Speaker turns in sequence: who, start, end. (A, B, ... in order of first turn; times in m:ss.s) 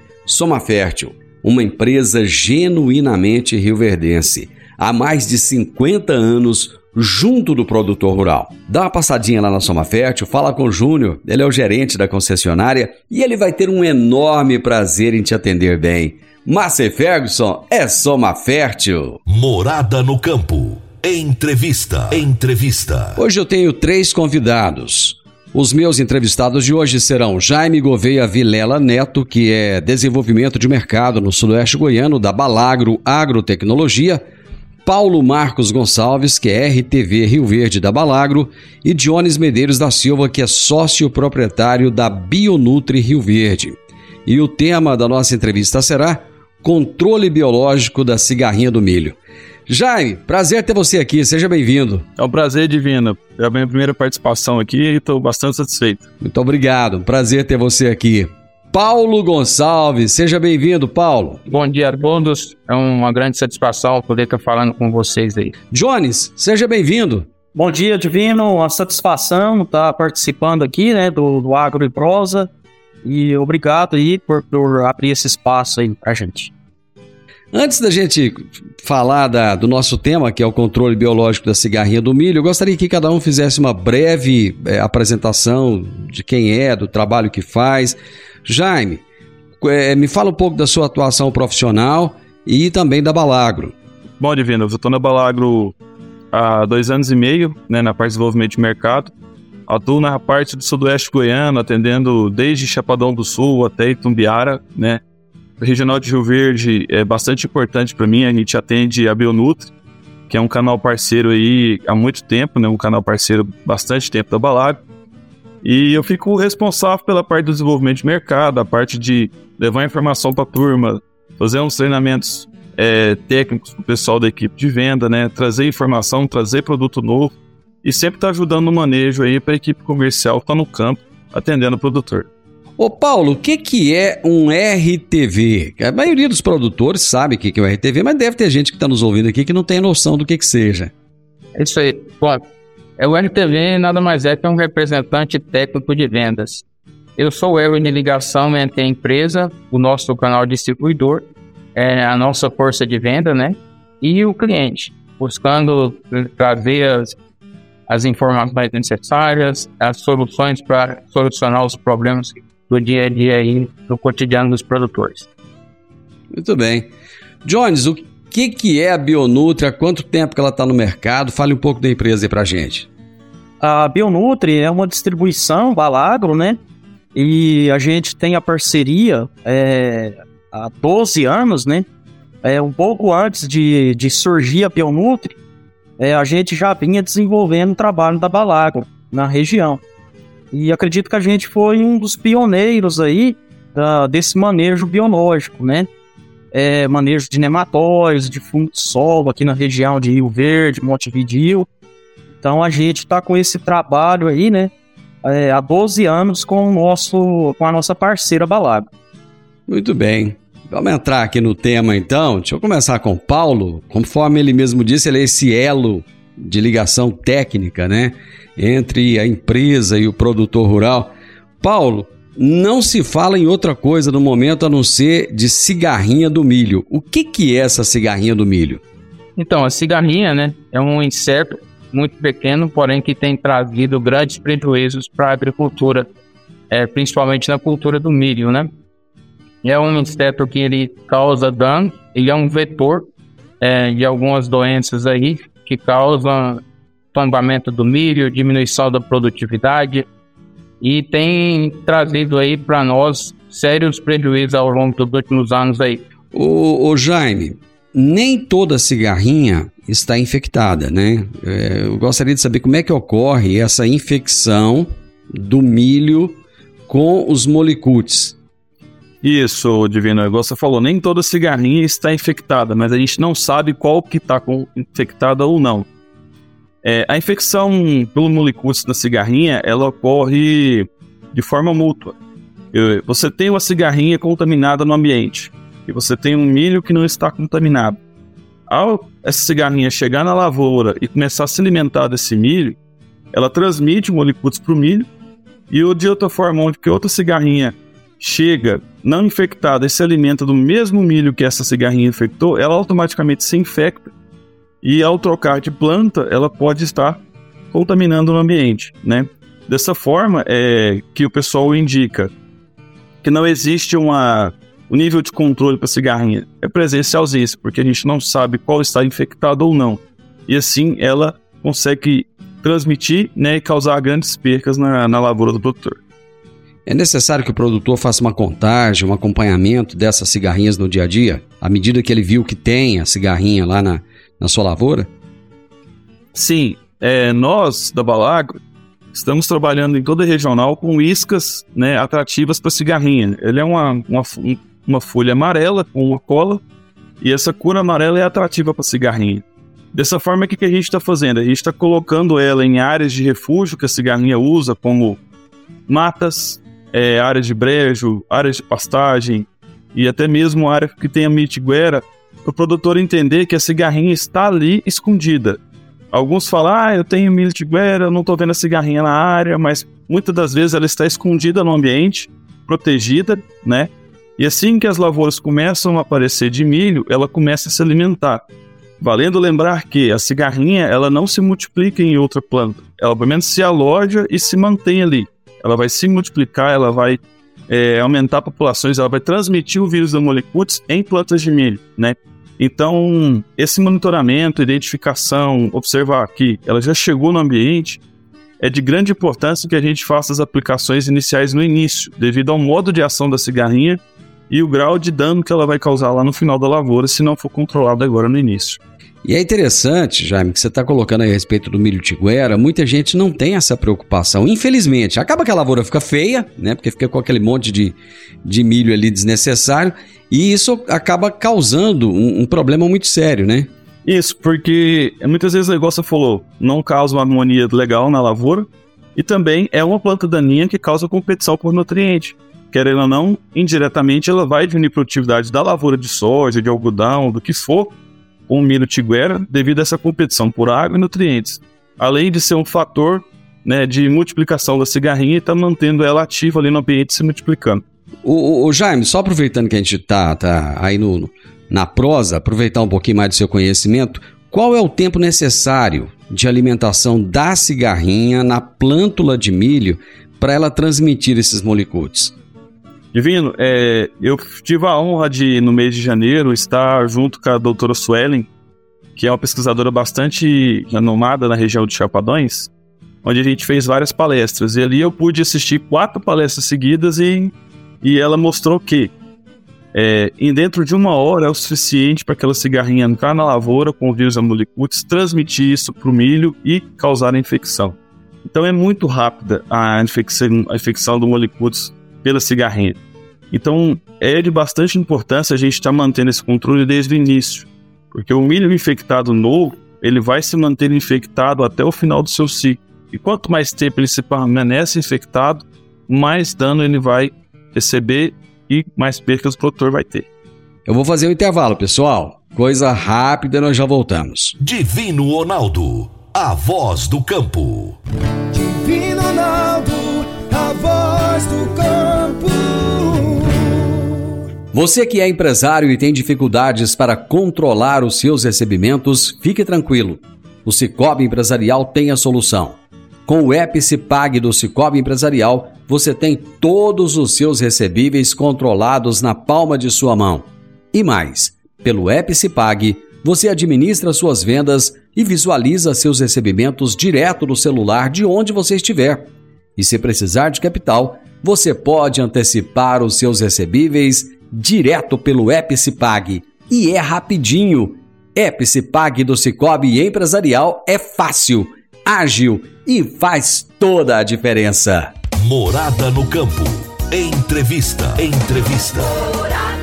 0:00.2-0:19.2 A
0:19.3-0:23.2 B
0:23.2-0:34.2 A
0:34.8-0:52.1 A
0:52.2-0:56.0 C
0:56.2-1:01.4 A
1:01.4-1:05.5 D
1:05.7-1:07.3 A
1:07.5-1:12.5 E
1:13.0-1:16.5 E
1:17.5-1:29.0 A
1:29.6-1:33.7 A
1:34.2-1:35.7 C
1:36.3-1:39.1 C
1:39.7-1:45.0 C
1:45.6-1:49.7 C
1:50.3-1:54.8 C
1:55.6-2:12.3 C
2:12.8-2:20.9 A
2:21.6-2:22.4 D
2:23.0-2:26.6 D
2:27.2-2:37.2 D
2:37.9-2:45.3 D
2:46.3-2:46.9 A
2:47.4-2:52.9 A
2:53.6-2:56.6 E
2:57.1-3:01.8 E
3:02.4-3:05.4 E
3:06.0-3:09.8 E
3:10.5-3:15.9 E
3:16.5-3:21.7 E
3:22.4-3:24.7 E
3:25.2-3:28.9 E
3:29.7-3:48.8 A
3:49.4-3:56.1 D
3:56.7-3:58.7 D
3:59.6-4:03.1 D
4:03.6-4:06.6 D
4:07.1-4:10.0 D
4:10.8-4:16.0 D
4:16.3-4:28.4 A
4:29.2-4:35.9 C
4:36.8-4:42.2 C
4:42.7-4:48.0 C
4:48.7-4:52.8 C
4:53.3-4:55.1 C
4:55.7-5:04.1 C
5:04.8-5:07.2 C
5:07.7-5:12.3 C
5:13.2-5:26.0 C
5:26.8-5:35.1 A
5:36.3-5:38.6 C
5:39.1-5:46.6 C
5:47.2-5:55.2 C
5:55.9-6:05.6 C
6:06.1-6:18.4 C
6:19.0-6:38.0 C
6:38.6-6:48.8 C
6:49.2-7:03.7 A
7:04.0-7:18.0 C
7:18.5-7:27.8 C
7:28.2-7:42.3 A
7:43.1-7:48.5 C
7:49.2-7:52.7 C
7:53.2-7:59.1 C
7:59.9-8:13.0 C
8:13.5-8:30.2 C
8:30.8-8:34.6 A
8:34.6-8:38.0 B
8:38.5-8:44.2 F
8:44.7-9:25.1 A
9:25.4-9:29.2 B